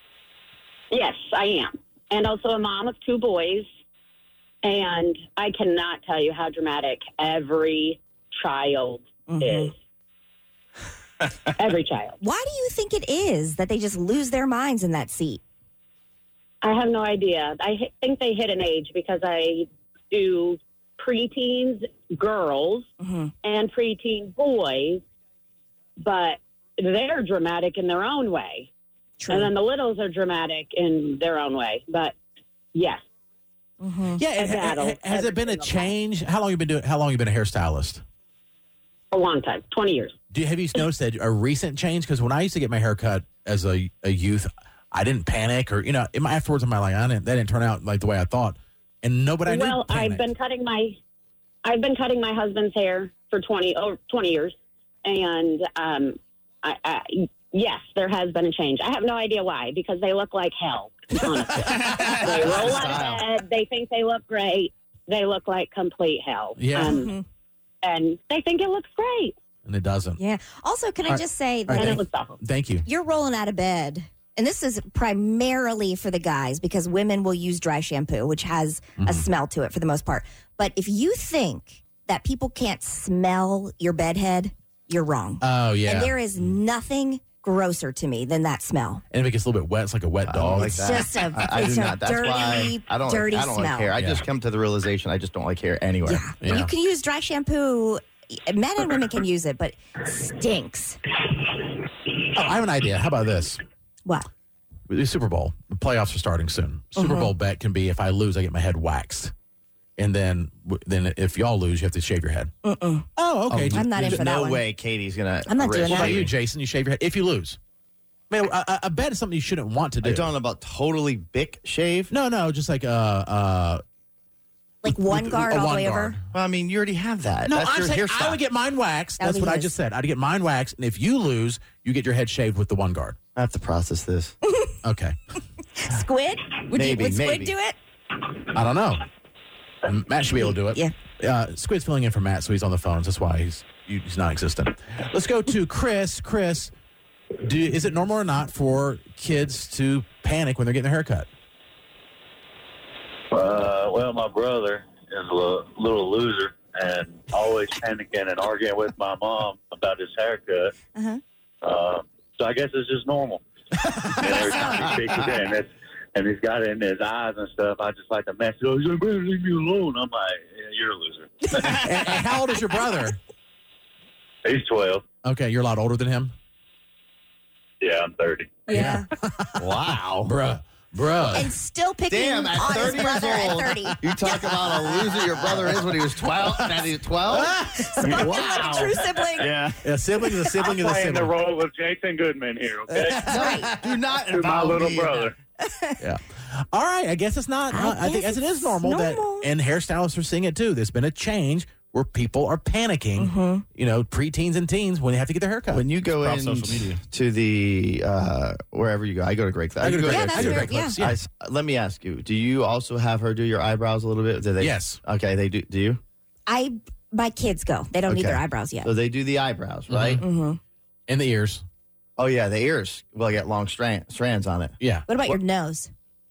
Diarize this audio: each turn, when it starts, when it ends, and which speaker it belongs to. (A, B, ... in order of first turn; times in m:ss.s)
0:00.9-0:03.7 A
0:04.6-0:09.7 A
0:09.3-0:09.7 B
0:11.6-0:12.2 A
0:12.2-0:15.4 B
0:16.6-0:22.9 A
0:23.0-0:23.3 B
0:23.4-0:25.0 A
0:26.0-0:28.7 A
0:29.2-0:29.5 B
0:29.3-0:32.2 A
0:32.7-0:33.0 A
0:33.8-0:34.2 B
0:34.2-0:38.0 C
0:34.4-0:35.9 A
0:39.1-0:40.2 A
0:40.3-0:50.2 C
0:49.5-0:51.0 A
0:51.6-1:07.1 A
1:01.6-1:03.2 D
1:06.6-1:07.0 C
1:06.8-1:07.2 B
1:07.8-1:09.4 A
1:09.6-1:10.2 C
1:10.2-1:12.0 B
1:11.1-1:12.9 C
1:11.7-1:12.4 A
1:12.8-1:29.0 B
1:19.0-1:19.2 C
1:25.4-1:26.2 C
1:29.1-1:30.9 C
1:30.3-1:36.2 D
1:30.7-1:33.9 B
1:34.0-1:34.2 C
1:36.1-1:41.0 B
1:36.4-1:36.7 C
1:42.2-1:43.6 C
1:44.9-1:49.3 C
1:47.0-1:47.3 B
1:50.0-1:52.5 C
1:52.6-1:53.1 B
1:53.2-1:54.2 C
1:53.5-1:56.3 D
1:53.7-1:54.6 B
1:55.5-1:56.2 B
1:55.7-1:57.6 C
1:58.3-2:00.3 C
2:00.0-2:02.1 D
2:02.1-2:03.8 C
2:04.8-2:06.2 B
2:05.1-2:06.2 C
2:06.3-2:08.4 D
2:07.4-2:13.2 C
2:09.2-2:09.7 B
2:13.4-2:14.4 D
2:14.8-2:15.2 C
2:15.8-2:17.8 B
2:16.7-2:17.5 D
2:18.5-2:19.1 C
2:19.8-2:26.7 C
2:20.4-2:20.9 B
2:27.4-2:31.3 C
2:33.3-2:40.8 E
2:41.0-2:41.2 B
2:41.6-2:43.4 E
2:44.1-2:51.9 E
2:44.4-2:45.2 D
2:44.5-2:44.8 B
2:51.7-2:53.2 C
2:54.4-2:55.1 E
2:55.2-2:56.3 C
2:57.8-2:58.8 E
2:58.7-2:59.0 B
2:58.7-2:59.6 C
2:59.6-3:00.3 D
3:00.2-3:01.5 C
3:01.3-3:05.2 B
3:02.1-3:09.0 D
3:07.5-3:07.8 C
3:07.6-3:09.6 B
3:08.1-3:09.8 E
3:09.8-3:11.3 C
3:10.6-3:13.6 E
3:12.9-3:13.3 C
3:13.2-3:15.3 D
3:13.3-3:13.7 B
3:14.2-3:15.3 E
3:15.6-3:16.0 B
3:16.0-3:27.0 C
3:17.7-3:19.5 B
3:23.2-3:23.6 B
3:25.7-3:36.0 D
3:29.8-3:31.2 C
3:30.1-3:31.0 B
3:34.6-3:35.0 C
3:36.5-3:38.9 B
3:38.1-3:40.2 D
3:39.9-3:40.2 C
3:40.2-3:40.6 B
3:41.1-3:41.6 C
3:42.2-3:44.8 D
3:44.8-3:45.1 C
3:45.1-3:45.9 B